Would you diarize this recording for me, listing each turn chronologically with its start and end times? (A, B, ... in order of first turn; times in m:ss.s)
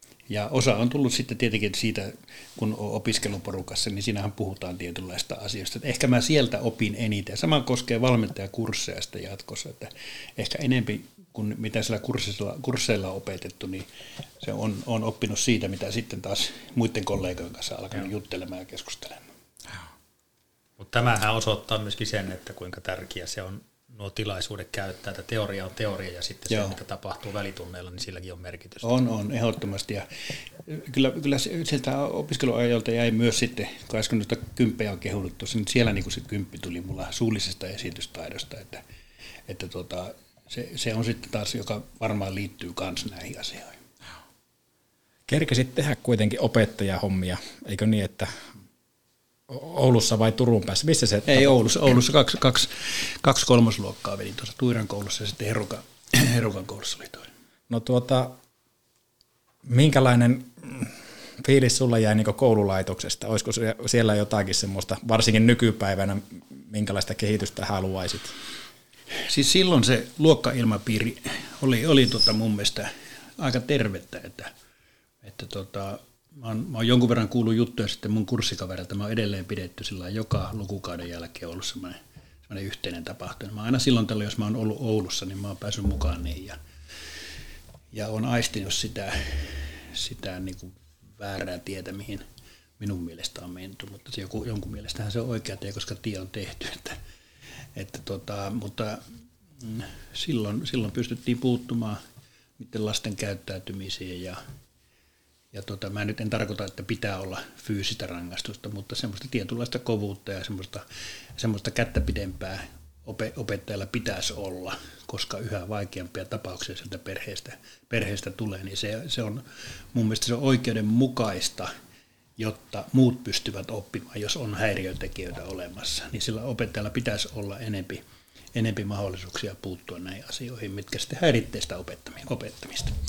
0:00.3-0:13.8 A
0:14.4-0:19.2 A
0:20.8-0:28.8 B
0:26.5-0:26.8 A
0:28.8-0:30.0 A
0:30.6-0:38.8 A
0:39.5-0:43.8 A
0:45.3-0:48.4 C
0:49.5-0:51.6 C
0:51.2-0:57.3 A
0:57.7-0:58.3 C
0:59.6-1:08.4 C
1:09.3-1:14.5 A
1:15.2-1:26.6 A
1:27.9-1:32.2 A
1:32.8-1:37.0 A
1:37.7-1:39.0 A
1:39.6-1:42.0 A
1:42.6-1:44.4 A
1:45.5-1:50.8 A
1:51.4-2:01.7 A
2:02.4-2:08.0 A
2:08.5-2:12.9 A